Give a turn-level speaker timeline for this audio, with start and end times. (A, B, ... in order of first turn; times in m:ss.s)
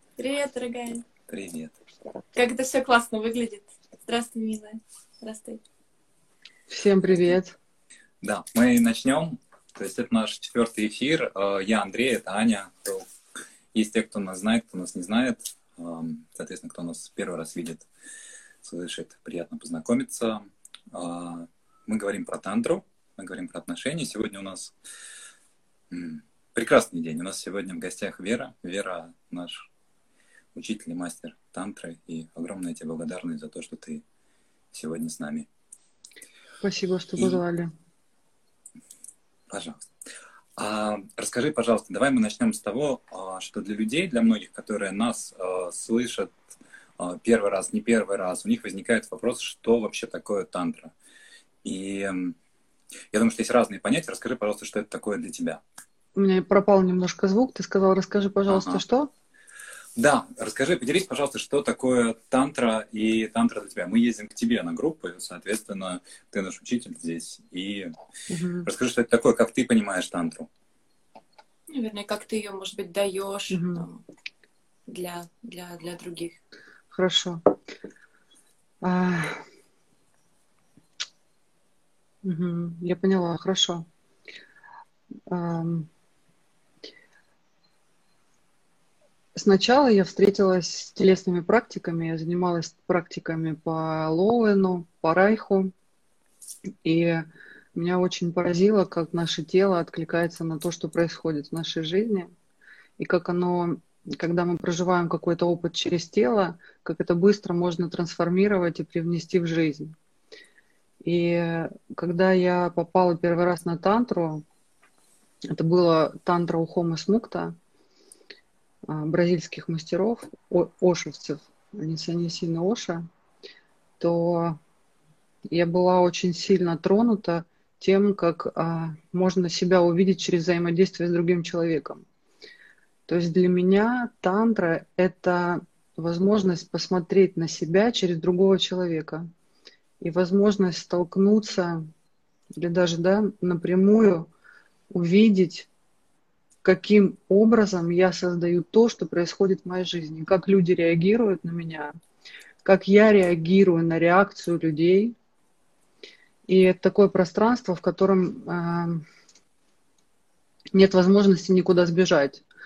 0:00.2-0:01.0 A
0:01.3-0:01.7 B
0:02.3-0:05.6 A
0:06.7-0:07.5 C
0:08.2-0:13.1 B
0:13.7-0:17.8 B
0:18.6-0:24.7 B
0:25.9-0:29.6 B
0:30.5-0:34.0 B
0:34.7-0:35.4 B
0:36.6-0:37.7 C
0:39.5-0:39.9 B
0:40.6-0:46.3 B
0:47.0-0:50.9 B
0:51.6-0:52.4 B
0:53.1-0:55.6 B
0:56.1-0:59.1 C
0:58.5-0:58.8 B
1:00.0-1:07.9 B
1:08.3-1:08.7 C
1:08.6-1:10.5 B
1:11.7-1:14.0 A
1:13.5-1:13.8 C
1:14.9-1:16.4 A
1:16.9-1:17.4 C
1:18.8-1:19.4 C
1:22.2-1:23.8 C
1:25.3-1:25.9 C
1:29.3-1:35.7 C
1:36.8-1:42.3 C
1:43.0-1:49.9 C
1:51.0-1:54.4 C
1:55.5-1:57.6 C
1:58.9-2:03.0 C
2:04.0-2:04.6 C
2:05.5-2:12.0 C
2:13.1-2:19.3 C
2:20.0-2:21.8 C
2:22.6-2:24.3 C
2:24.9-2:25.7 C
2:26.6-2:31.9 C
2:32.6-2:35.1 C
2:36.5-2:39.0 C
2:40.7-2:42.4 C